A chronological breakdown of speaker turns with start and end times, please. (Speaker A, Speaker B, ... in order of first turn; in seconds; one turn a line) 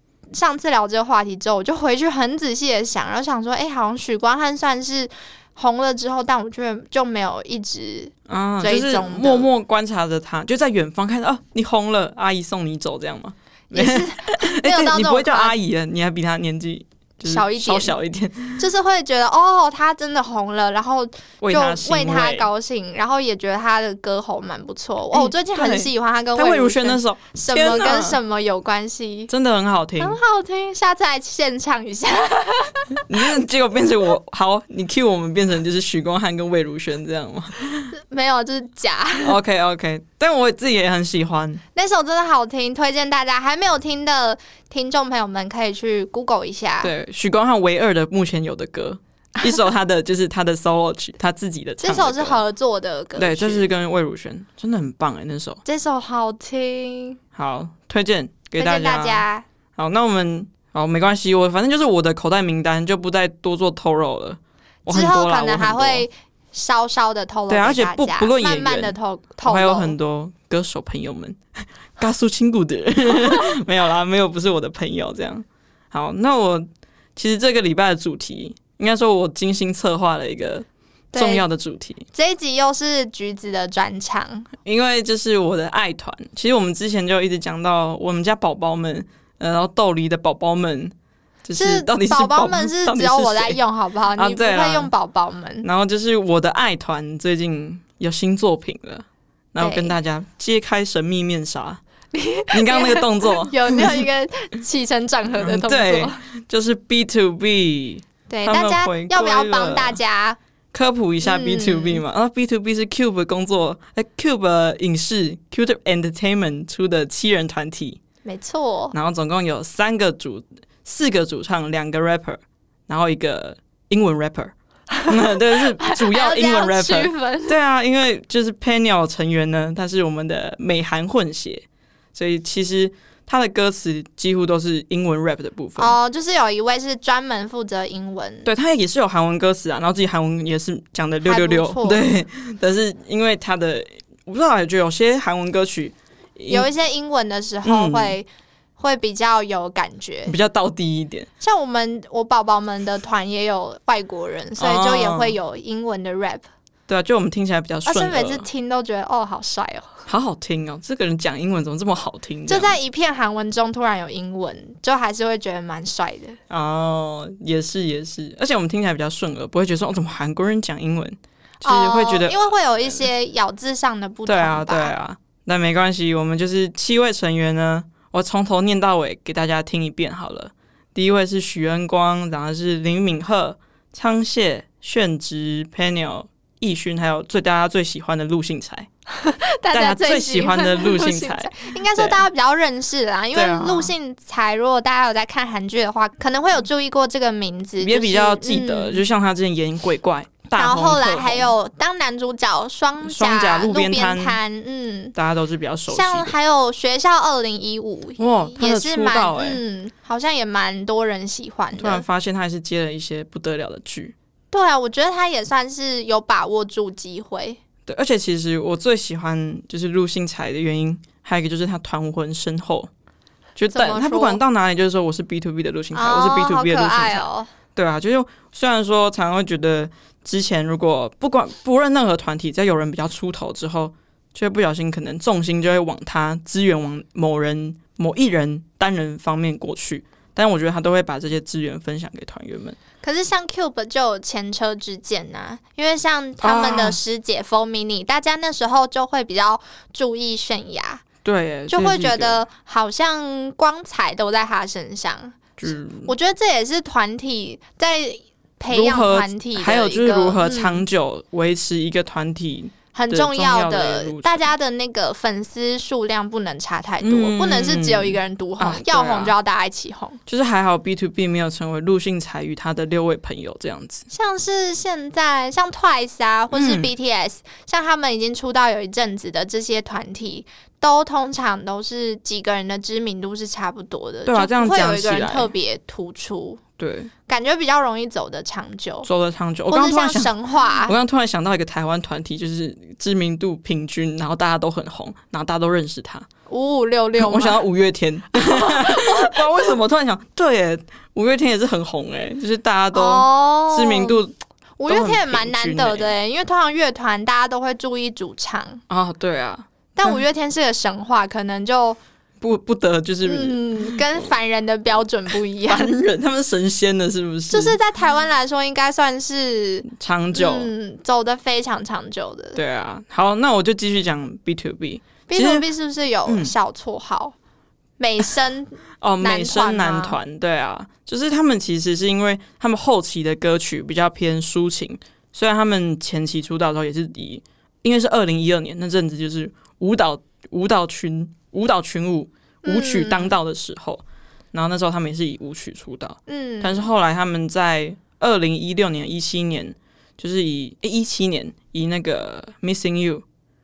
Speaker A: 0.3-9.5
Speaker B: 8.3-18.6
Speaker A: 13.7-15.6
Speaker A: 17.2-17.9
Speaker A: 18.6-29.3
Speaker B: 21.4-22.5
Speaker B: 25.1-28.2
Speaker B: 29.3-30.2
Speaker A: 30.0-33.0
Speaker B: 33.0-37.9
Speaker A: 37.9-39.4
Speaker B: 39.2-41.6
Speaker A: 41.7-46.9
Speaker B: 46.8-52.4
Speaker A: 51.8-53.7
Speaker B: 53.2-55.6
Speaker A: 55.6-57.2
Speaker B: 57.4-66.1
Speaker A: 58.6-59.5
Speaker A: 64.9-70.0
Speaker B: 67.5-71.4
Speaker B: 72.0-82.1
Speaker A: 81.1-81.5
Speaker A: 82.1-84.5
Speaker B: 84.7-93.6
Speaker A: 91.5-95.7
Speaker B: 94.2-94.9
Speaker B: 95.6-101.8
Speaker A: 99.6-100.0
Speaker A: 102.1-106.2
Speaker B: 102.5-104.1
Speaker B: 105.4-110.0
Speaker A: 108.3-110.4
Speaker B: 110.7-118.0
Speaker A: 111.2-112.0
Speaker A: 118.2-119.0
Speaker B: 118.9-124.5
Speaker A: 125.0-127.6
Speaker B: 125.1-136.0
Speaker A: 135.8-138.5
Speaker B: 138.4-146.7
Speaker A: 141.2-142.0
Speaker A: 146.5-148.3
Speaker B: 147.6-148.2
Speaker A: 148.8-150.4
Speaker B: 150.3-151.3
Speaker A: 151.4-156.4
Speaker B: 154.6-155.4
Speaker B: 156.9-158.5
Speaker A: 157.9-160.0
Speaker B: 160.1-162.8
Speaker A: 162.5-166.4
Speaker B: 166.5-173.1
Speaker A: 171.6-174.9
Speaker B: 174.3-188.9
Speaker A: 189.1-199.0
Speaker B: 189.7-192.3
Speaker B: 193.3-193.9
Speaker B: 197.8-201.5
Speaker A: 200.6-205.2
Speaker B: 203.0-204.4
Speaker B: 205.2-206.3
Speaker A: 205.9-212.1
Speaker B: 208.2-209.6
Speaker B: 211.8-214.2
Speaker A: 214.5-217.6
Speaker B: 217.9-222.9
Speaker B: 223.6-242.8
Speaker A: 223.7-224.4
Speaker A: 225.9-227.5
Speaker A: 243.0-251.0
Speaker B: 246.4-247.0
Speaker B: 251.2-252.4
Speaker A: 251.7-255.4
Speaker B: 255.6-256.1
Speaker A: 256.1-260.8
Speaker B: 258.7-264.5
Speaker A: 262.9-270.2
Speaker B: 267.0-269.3
Speaker B: 270.3-274.1
Speaker A: 274.1-286.6
Speaker B: 276.5-276.9
Speaker B: 284.3-285.5
Speaker B: 286.8-287.1
Speaker A: 287.3-289.1
Speaker B: 289.1-296.3
Speaker A: 289.7-290.9
Speaker A: 296.5-297.6
Speaker B: 297.2-304.3
Speaker A: 298.3-299.8
Speaker A: 302.9-304.2
Speaker A: 304.8-308.8
Speaker B: 304.9-306.1
Speaker B: 308.9-310.2
Speaker A: 310.0-312.0
Speaker B: 312.4-314.3
Speaker A: 313.2-315.9
Speaker B: 315.7-317.8
Speaker A: 317.5-322.6
Speaker B: 319.9-320.7
Speaker B: 322.6-325.7
Speaker A: 325.3-327.4
Speaker B: 326.2-326.5
Speaker A: 328.0-330.2
Speaker B: 329.0-353.2
Speaker A: 342.6-343.4
Speaker A: 346.3-346.9